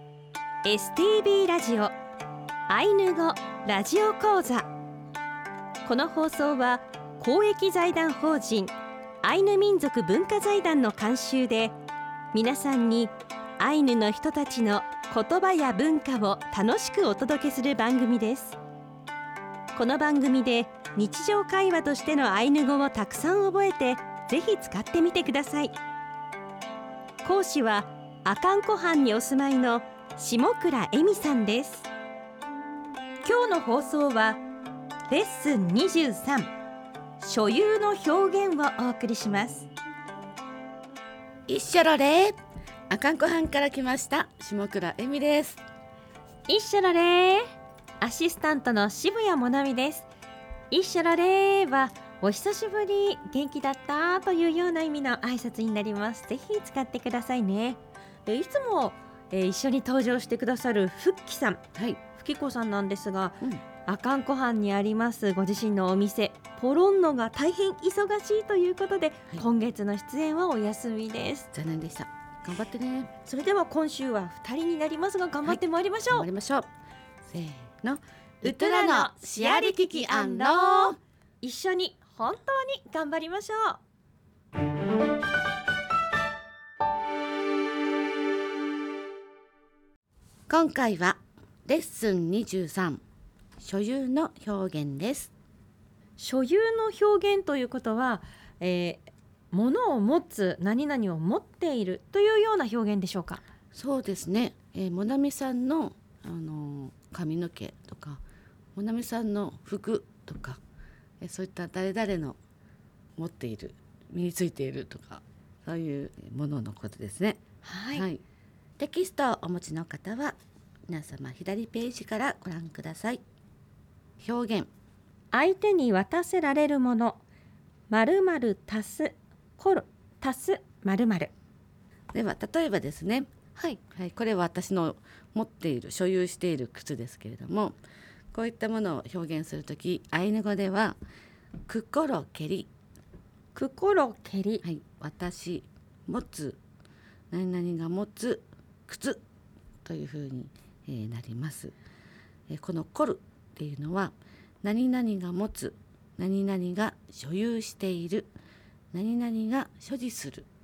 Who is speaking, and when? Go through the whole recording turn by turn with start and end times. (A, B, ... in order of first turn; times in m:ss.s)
0:00.6-0:01.9 A
0:02.7-0:04.7 A
0:05.8-0:11.8 A
0:12.3-0:18.6 A
0:19.7-0:25.7 A
0:27.2-0:31.9 A
0:33.2-0:34.4 A
0:35.1-0:36.5 A
0:37.2-0:39.7 A
0:41.5-0:42.4 B
0:42.9-0:45.6 B
0:46.5-0:47.5 A
0:48.0-0:50.1 A
0:50.7-1:11.5 A
1:01.7-1:02.0 B
1:11.5-1:13.1 B
1:13.2-1:16.3 A
1:15.4-1:16.7 B
1:17.3-1:21.0 B
1:18.4-1:23.8 A
1:30.5-1:33.0 B
1:33.6-1:35.3 B
1:36.2-1:43.4 A
1:43.7-1:48.2 B
1:48.8-1:50.6 B
1:51.2-1:52.4 B
1:53.2-1:57.4 B
1:57.6-1:58.0 A
1:57.9-1:58.2 B
1:58.8-2:00.4 B
2:00.9-2:03.2 B
2:04.2-2:04.7 B
2:05.3-2:07.2 A
2:07.9-2:11.3 A
2:12.1-2:13.3 B
2:13.9-2:17.8 B
2:18.3-2:21.0 B
2:21.7-2:22.7 B
2:23.5-2:24.6 A
2:24.6-2:26.6 B
2:27.3-2:29.2 B
2:29.8-2:31.7 B
2:32.5-2:38.3 B
2:38.9-2:40.4 B